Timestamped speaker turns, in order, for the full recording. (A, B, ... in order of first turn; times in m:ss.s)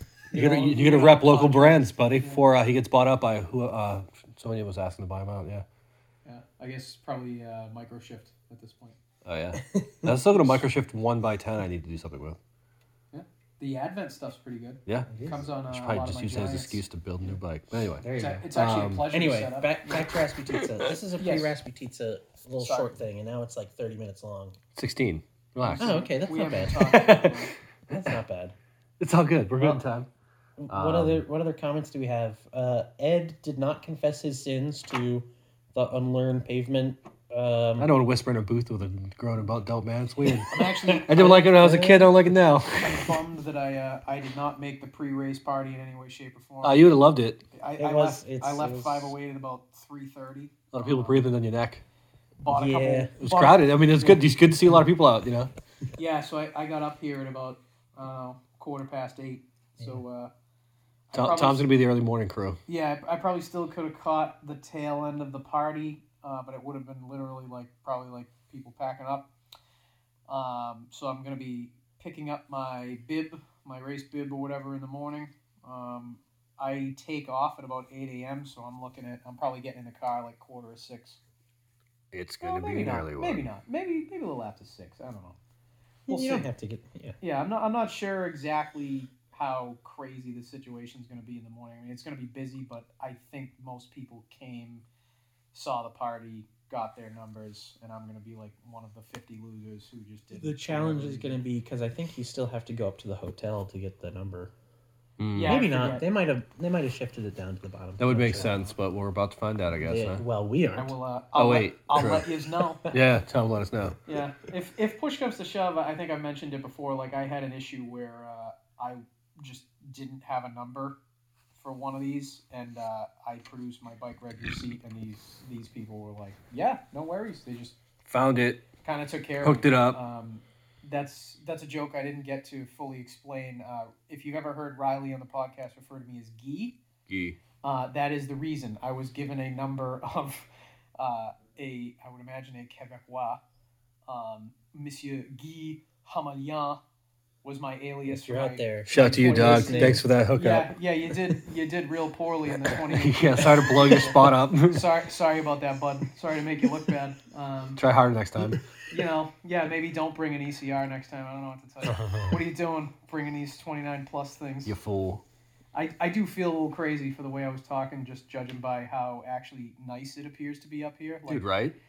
0:00.3-0:02.4 A
0:00.3-0:05.6 B
0:06.2-0:09.0 A
0:09.2-0:12.4 B
0:09.6-0:10.3 C
0:13.1-0:16.8 A
0:14.9-0:15.1 B
0:15.1-0:15.4 C
0:15.6-0:19.1 B
0:18.0-0:18.5 C
0:18.2-0:20.0 A
0:19.1-0:24.6 C
0:21.2-0:21.6 A
0:22.6-0:23.0 A
0:24.8-0:26.1 B
0:25.6-0:27.5 A
0:25.8-0:27.1 C
0:26.7-0:28.1 B
0:27.9-0:28.6 C
0:29.0-0:30.1 B
0:30.6-0:37.9 C
0:30.7-0:31.2 B
0:37.8-0:43.2 B
0:40.5-0:41.7 A
0:40.9-0:42.1 C
0:42.7-0:46.9 A
0:46.6-0:47.4 B
0:47.5-0:51.3 A
0:47.8-0:49.2 C
0:50.7-0:51.8 B
0:52.4-0:54.2 A
0:52.4-0:53.1 C
0:53.2-0:55.5 B
0:56.0-1:00.3 A
1:01.1-1:01.6 A
1:01.1-1:02.6 B
1:02.7-1:09.3 A
1:10.3-1:21.2 A
1:22.1-1:23.4 B
1:22.4-1:25.4 A
1:26.1-1:27.2 C
1:26.1-1:26.5 A
1:27.2-1:34.8 A
1:35.5-1:41.4 A
1:40.3-1:44.5 C
1:45.2-1:45.6 B
1:45.4-1:46.1 A
1:45.4-1:48.6 C
1:48.0-1:50.2 B
1:49.8-1:50.9 C
1:50.8-1:52.9 A
1:51.4-1:52.3 B
1:52.9-1:54.0 B
1:54.1-2:01.0 A
2:01.6-2:07.8 A
2:08.1-2:08.7 B
2:08.8-2:16.8 A
2:09.4-2:10.0 B
2:17.1-2:17.4 B
2:17.6-2:23.4 A
2:24.1-2:26.8 A
2:27.4-2:37.8 A
2:28.1-2:30.1 C
2:28.9-2:30.7 B
2:32.7-2:34.9 B
2:37.8-2:38.6 B
2:38.9-2:44.8 A
2:41.9-2:42.4 B
2:44.7-2:45.2 B
2:45.7-2:51.4 A
2:51.3-2:51.8 B